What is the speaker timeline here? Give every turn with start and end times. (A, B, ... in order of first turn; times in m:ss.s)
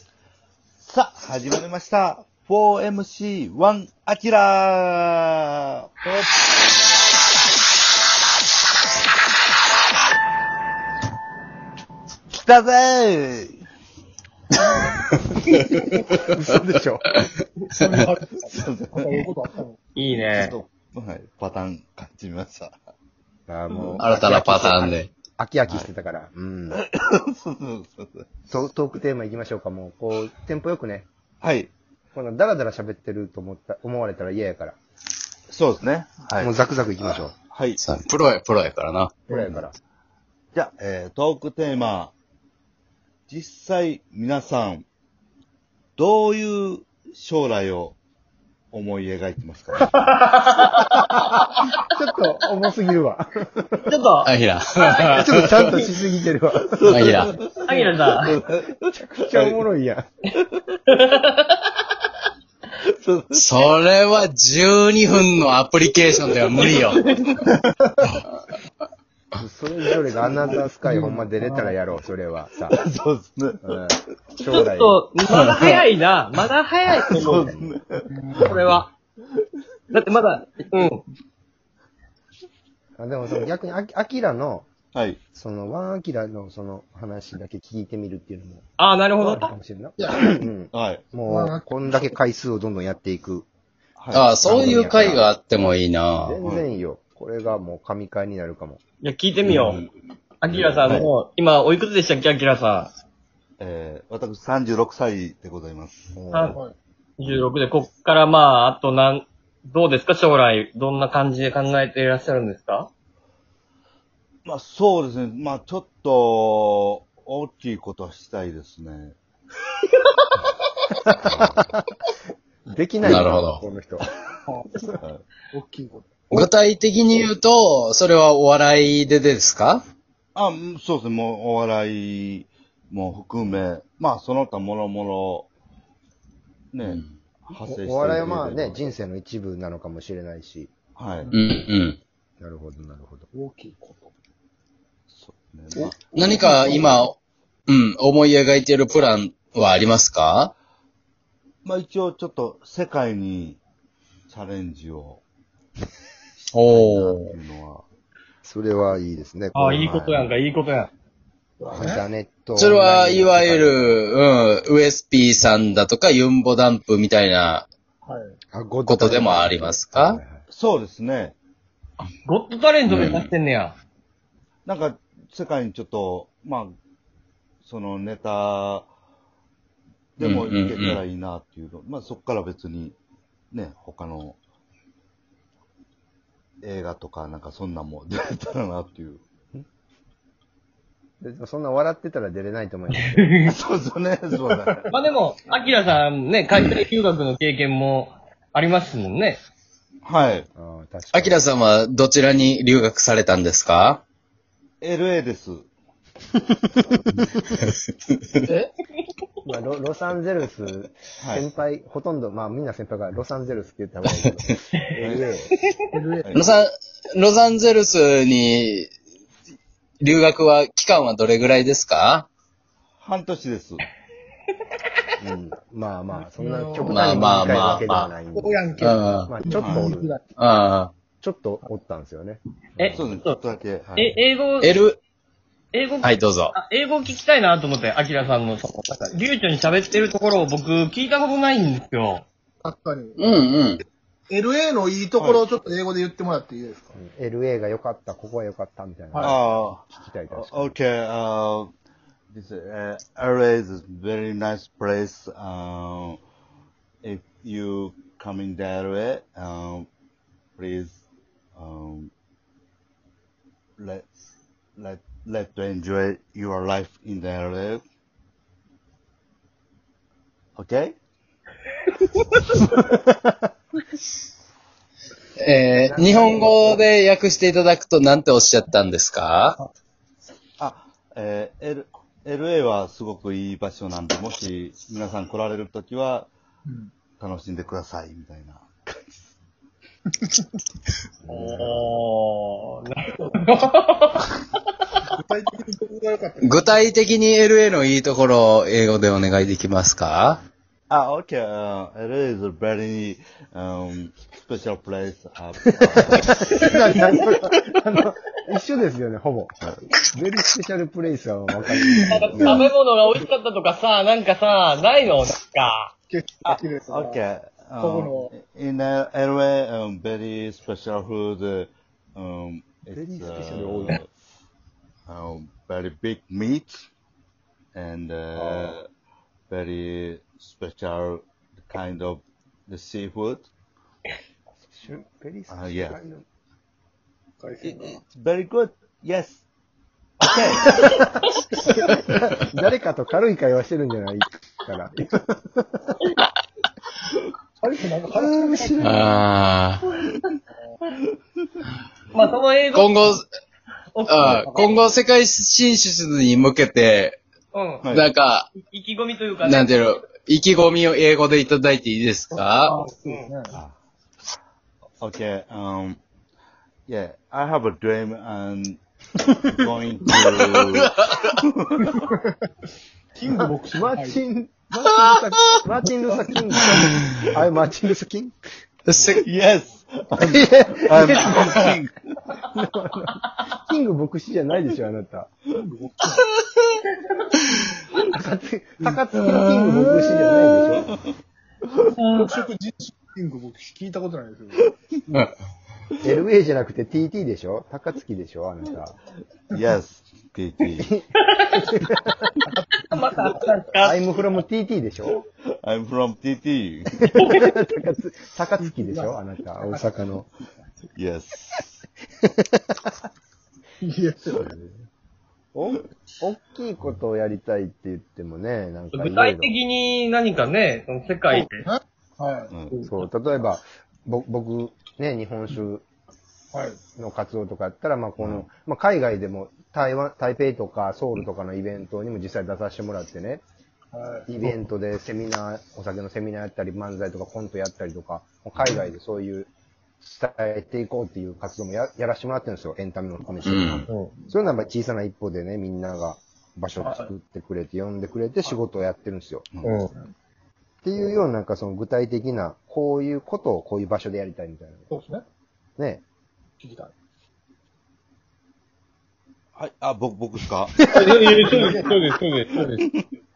0:00.8-0:05.6 A
0:12.3-0:13.6 A
0:15.5-0:17.3 B
0:17.8-0:18.3 C
0:18.3-0:19.2 A
0:19.0-0:19.8 C
0:20.0-0:20.6 D
0:20.2-0:22.8 A
0:23.5-0:26.8 B
0:24.0-0:25.1 E
0:26.8-0:28.3 A
0:28.5-0:31.1 B
0:31.4-0:31.7 A
0:32.1-0:34.8 B
0:35.5-0:36.5 A
0:36.4-0:37.3 B
0:37.5-0:37.8 A
0:37.8-0:39.1 E
0:39.3-0:39.7 B
0:39.3-0:39.6 A
0:40.5-0:42.1 A
0:43.3-0:44.9 A
0:46.0-0:48.0 A
0:48.7-0:50.1 A
0:50.0-0:51.1 D
0:50.9-0:53.9 B
0:53.9-0:55.2 D
0:54.2-0:55.8 E
0:55.1-0:57.2 B
0:56.7-0:59.6 A
0:56.9-0:57.3 E
0:57.7-0:58.3 D
0:58.8-1:00.1 B
1:00.9-1:01.7 D
1:02.8-1:03.5 A
1:03.4-1:07.0 E
1:06.6-1:07.4 D
1:09.4-1:12.8 B
1:10.8-1:11.7 C
1:12.7-1:13.6 A
1:13.6-1:15.0 B
1:14.4-1:17.5 D
1:15.4-1:15.7 E
1:17.0-1:17.7 B
1:17.0-1:18.8 A
1:18.4-1:18.9 D
1:19.9-1:21.0 D
1:23.0-1:24.7 B
1:24.9-1:25.2 A
1:25.3-1:28.6 B
1:28.8-1:29.5 D
1:29.2-1:33.5 B
1:30.0-1:30.4 C
1:30.7-1:31.2 A
1:31.2-1:32.2 C
1:34.0-1:34.3 A
1:34.1-1:36.4 E
1:34.4-1:35.3 B
1:36.2-1:38.8 B
1:36.4-1:36.7 A
1:39.0-1:39.8 D
1:39.4-1:39.9 A
1:40.4-1:42.9 D
1:40.5-1:41.1 A
1:43.6-1:46.1 A
1:46.2-1:46.6 B
1:46.3-1:46.6 D
1:47.2-1:52.9 D
1:54.5-1:59.2 A
1:59.9-2:00.2 D
2:01.0-2:01.8 B
2:01.2-2:01.7 A
2:02.7-2:04.1 B
2:03.0-2:03.6 E
2:05.0-2:05.3 A
2:05.5-2:06.1 C
2:06.3-2:09.8 E
2:10.4-2:15.5 A
2:16.7-2:18.9 A
2:16.8-2:17.1 E
2:17.6-2:20.7 B
2:21.0-2:21.3 A
2:21.3-2:22.0 E
2:22.4-2:23.3 B
2:23.3-2:24.1 C
2:25.1-2:26.3 A
2:26.1-2:27.2 E
2:27.7-2:30.5 E
2:31.6-2:33.6 A
2:34.3-2:35.2 A
2:36.5-2:37.4 E
2:36.7-2:37.2 B
2:37.3-2:37.9 A
2:38.4-2:40.3 B
2:39.6-2:40.9 D
2:41.6-2:42.0 C
2:41.7-2:44.0 B
2:42.6-2:47.7 E
2:48.0-2:48.4 C
2:48.5-2:50.4 B
2:48.8-2:50.2 E
2:50.5-2:51.4 A
2:52.2-2:53.8 D
2:52.9-2:53.3 E
2:54.7-2:56.7 A
2:57.6-2:58.9 A
3:00.2-3:03.0 A
3:00.2-3:01.0 E
3:03.5-3:04.4 A
3:06.6-3:09.2 A
3:11.2-3:13.3 B
3:13.0-3:13.5 D
3:13.5-3:14.9 A
3:14.9-3:19.4 D
3:20.0-3:20.5 A
3:20.6-3:21.4 B
3:21.1-3:24.0 E
3:24.8-3:25.7 A
3:26.8-3:27.4 B
3:29.4-3:35.5 B
3:36.2-3:36.5 A
3:36.3-3:38.9 E
3:40.0-3:42.3 E
3:43.0-3:43.8 A
3:45.2-3:50.1 B
3:46.2-3:47.0 C
3:46.9-3:48.1 E
3:48.3-3:48.9 C
3:48.8-3:49.3 E
3:49.4-3:50.2 C
3:49.6-3:50.0 A
3:50.4-3:50.9 E
3:51.2-3:53.0 B
3:52.8-3:53.4 D
3:52.9-3:54.2 A
3:54.0-3:54.8 D
3:54.6-3:55.0 E
3:55.7-4:02.2 D
3:56.0-3:56.6 E
3:58.7-3:59.2 C
4:02.6-4:03.3 C
4:03.2-4:03.8 E
4:04.3-4:06.9 C
4:07.0-4:10.8 B
4:09.2-4:11.7 A
4:12.3-4:16.2 A
4:17.0-4:19.9 A
4:20.6-4:21.0 A
4:21.6-4:22.1 A
4:23.8-4:24.1 A
4:24.8-4:27.8 A
4:30.6-4:31.0 A
4:32.1-4:32.4 D
4:32.7-4:33.4 B
4:35.4-4:39.6 E
4:35.9-4:36.5 B
4:40.6-4:46.3 A
4:46.7-4:46.9 C
4:47.2-4:49.3 A
4:51.2-4:52.0 B
4:51.3-4:54.4 D
4:55.1-4:57.0 C
4:56.4-5:00.4 E
5:00.9-5:06.7 A
5:05.8-5:09.6 B
5:10.1-5:12.7 B
5:11.7-5:12.1 A
5:12.0-5:15.9 D
5:16.1-5:17.2 C
5:16.4-5:24.1 A
5:17.8-5:18.3 C
5:22.9-5:24.0 B
5:25.1-5:26.8 A
5:27.7-5:28.8 A
5:28.4-5:28.8 B
5:29.5-5:33.5 A
5:34.7-5:36.2 B
5:35.5-5:36.0 A
5:37.4-5:38.0 C
5:37.6-5:39.4 A
5:40.2-5:41.0 A
5:40.7-5:41.1 B
5:41.7-5:46.0 B
5:47.6-5:48.8 C
5:48.1-5:49.1 A
5:48.8-5:49.8 E
5:52.1-5:53.2 D
5:52.7-5:53.2 E
5:53.9-5:54.9 D
5:54.1-5:57.2 E
5:57.5-5:57.9 D
5:57.8-5:58.1 A
5:57.9-5:58.5 E
5:58.6-5:59.7 D
5:59.4-6:02.8 E
6:02.7-6:03.5 C
6:05.0-6:06.0 A
6:06.9-6:08.8 A
6:09.4-6:12.1 A
6:10.3-6:11.3 E
6:13.2-6:14.2 C
6:13.7-6:18.4 B
6:14.9-6:15.6 A
6:16.1-6:16.8 C
6:17.0-6:17.3 A
6:18.9-6:19.2 E
6:19.1-6:22.2 A
6:20.2-6:21.6 B
6:21.3-6:21.7 E
6:22.5-6:25.4 B
6:25.6-6:26.3 C
6:28.1-6:30.9 B
6:29.2-6:30.6 E
6:30.8-6:31.1 A
6:31.9-6:32.3 D
6:32.2-6:34.7 C
6:36.0-6:39.0 B
6:39.5-6:40.9 A
6:40.8-6:42.3 B
6:42.5-6:43.4 C
6:42.9-6:44.1 D
6:43.8-6:45.2 B
6:45.6-6:47.0 A
6:47.0-6:50.3 B
6:47.2-6:47.4 D
6:48.6-6:49.9 C
6:51.0-6:51.8 A
6:52.4-6:52.9 B
6:53.8-6:54.4 C
6:54.3-6:54.6 A
6:55.6-6:59.5 B
6:58.9-7:01.7 D
7:01.4-7:02.5 C
7:02.7-7:03.0 D
7:02.8-7:05.8 B
7:06.5-7:06.8 C
7:07.0-7:13.4 B
7:08.2-7:08.4 A
7:13.9-7:14.3 C
7:14.3-7:19.5 B
7:20.0-7:29.5 B
7:23.4-7:23.9 E
7:26.8-7:27.1 C
7:29.5-7:29.8 A
7:29.6-7:29.9 D
7:30.8-7:34.9 B
7:34.9-7:35.2 C
7:35.8-7:36.0 B
7:36.6-7:36.9 C
7:39.6-7:40.8 A
7:40.9-7:42.9 D
7:41.0-7:41.3 B